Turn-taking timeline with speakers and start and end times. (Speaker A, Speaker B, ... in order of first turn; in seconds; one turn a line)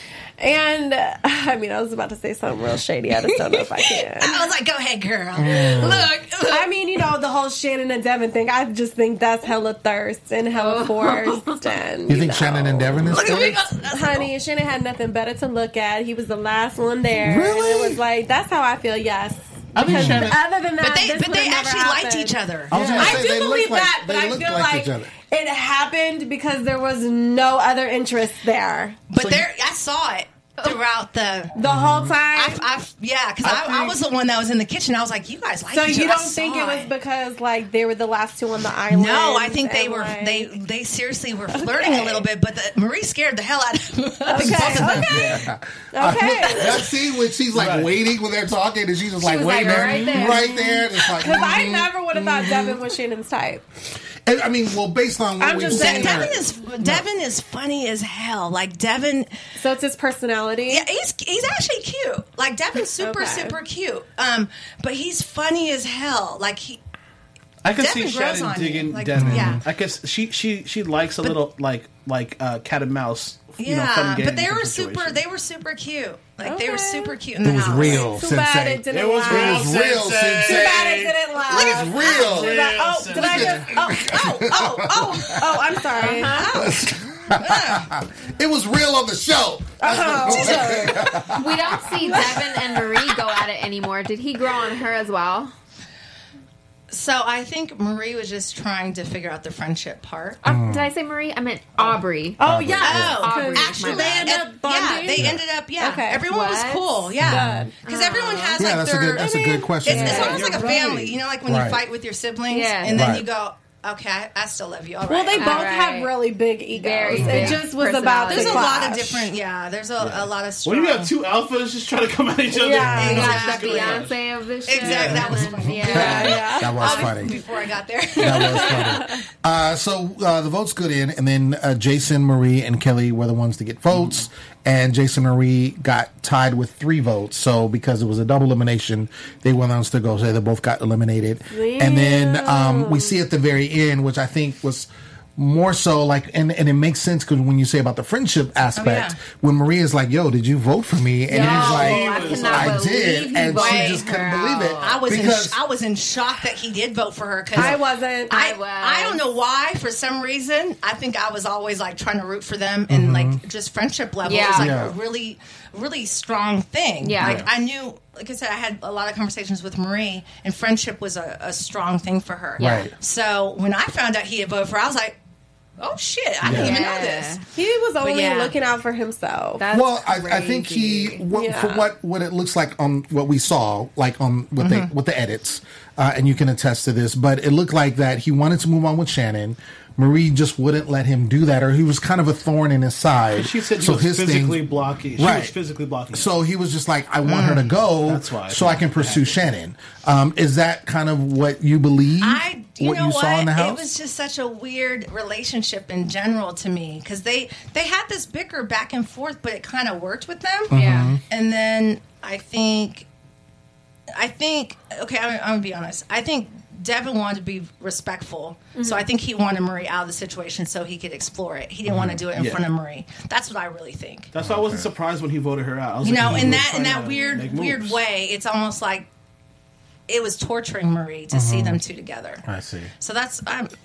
Speaker A: 0.4-4.5
Speaker B: 3.5-6.7
Speaker C: 5.3-6.1
Speaker A: 6.5-29.0
Speaker D: 10.6-11.7
Speaker C: 12.1-13.6
Speaker B: 13.1-14.3
Speaker C: 17.2-18.0
Speaker E: 19.8-20.4
Speaker C: 19.9-20.4
Speaker B: 20.8-22.7
Speaker C: 22.7-25.1
Speaker E: 22.7-23.2
Speaker B: 29.1-31.6
Speaker C: 29.2-29.5
Speaker A: 31.6-32.6
Speaker C: 31.6-32.2
Speaker B: 32.3-36.9
Speaker E: 33.4-34.0
Speaker A: 35.7-40.5
Speaker B: 38.9-45.4
Speaker A: 41.5-42.2
Speaker A: 44.3-46.9
Speaker C: 44.5-52.8
Speaker E: 47.5-47.9
Speaker D: 49.2-50.9
Speaker E: 49.6-50.3
Speaker A: 50.4-53.6
Speaker C: 54.2-57.0
Speaker A: 55.4-56.4
Speaker B: 55.7-59.3
Speaker A: 59.6-60.9
Speaker B: 60.7-66.8
Speaker A: 63.0-63.6
Speaker E: 67.6-75.2
Speaker B: 67.7-69.6
Speaker C: 69.2-69.6
Speaker B: 73.6-78.1
Speaker A: 76.4-77.2
Speaker C: 77.4-82.6
Speaker A: 77.8-79.8
Speaker E: 78.9-83.7
Speaker A: 80.5-86.6
Speaker B: 82.0-82.2
Speaker B: 83.1-87.9
Speaker C: 83.2-85.6
Speaker D: 86.0-86.5
Speaker C: 86.5-92.8
Speaker A: 89.8-91.4
Speaker D: 91.3-95.5
Speaker A: 92.0-92.4
Speaker B: 96.9-100.4
Speaker D: 100.4-102.4
Speaker C: 100.5-100.9
Speaker A: 101.8-106.2
Speaker C: 102.4-103.2
Speaker B: 102.8-115.7
Speaker D: 103.0-104.4
Speaker C: 105.2-105.4
Speaker D: 106.2-107.1
Speaker C: 107.2-107.7
Speaker A: 107.2-107.8
Speaker D: 107.8-108.7
Speaker C: 108.6-110.4
Speaker A: 109.1-110.5
Speaker E: 110.2-111.2
Speaker C: 111.5-111.8
Speaker D: 112.5-113.2
Speaker C: 112.9-113.3
Speaker A: 115.1-119.3
Speaker D: 115.3-118.9
Speaker C: 117.1-117.7
Speaker B: 118.3-121.1
Speaker E: 120.6-124.2
Speaker A: 122.5-123.4
Speaker B: 122.9-124.0
Speaker D: 123.0-127.0
Speaker B: 124.7-129.0
Speaker E: 124.8-125.1
Speaker C: 125.2-127.4
Speaker A: 125.9-127.4
Speaker C: 128.2-155.6
Speaker A: 128.6-129.1
Speaker A: 141.5-143.2
Speaker B: 148.8-149.2
Speaker D: 151.3-155.1
Speaker E: 151.3-152.9
Speaker B: 153.5-154.0
Speaker B: 154.8-175.2
Speaker A: 157.5-158.3
Speaker D: 158.3-159.2
Speaker C: 162.9-163.4
Speaker D: 164.2-164.8
Speaker C: 164.6-164.9
Speaker D: 167.0-167.4
Speaker C: 167.2-167.5
Speaker D: 172.6-172.9
Speaker C: 172.6-172.9
Speaker B: 175.8-177.4
Speaker C: 176.4-176.8
Speaker D: 176.4-177.4
Speaker A: 177.5-179.7
Speaker B: 178.0-178.5
Speaker D: 179.6-181.2
Speaker C: 179.7-194.7
Speaker A: 181.3-181.9
Speaker B: 184.6-184.9
Speaker E: 193.4-196.3
Speaker C: 195.2-195.6
Speaker C: 196.1-203.9
Speaker B: 197.2-197.7
Speaker E: 198.1-199.4
Speaker B: 202.2-213.1
Speaker C: 210.7-211.2
Speaker D: 210.7-211.2
Speaker B: 214.2-224.3
Speaker A: 218.8-219.0
Speaker C: 221.9-222.2
Speaker E: 222.3-222.6
Speaker E: 224.3-228.0
Speaker C: 224.4-224.9
Speaker B: 226.0-229.1
Speaker C: 226.2-226.7
Speaker B: 230.1-232.4
Speaker C: 231.3-231.8
Speaker C: 232.4-232.9
Speaker B: 233.0-233.7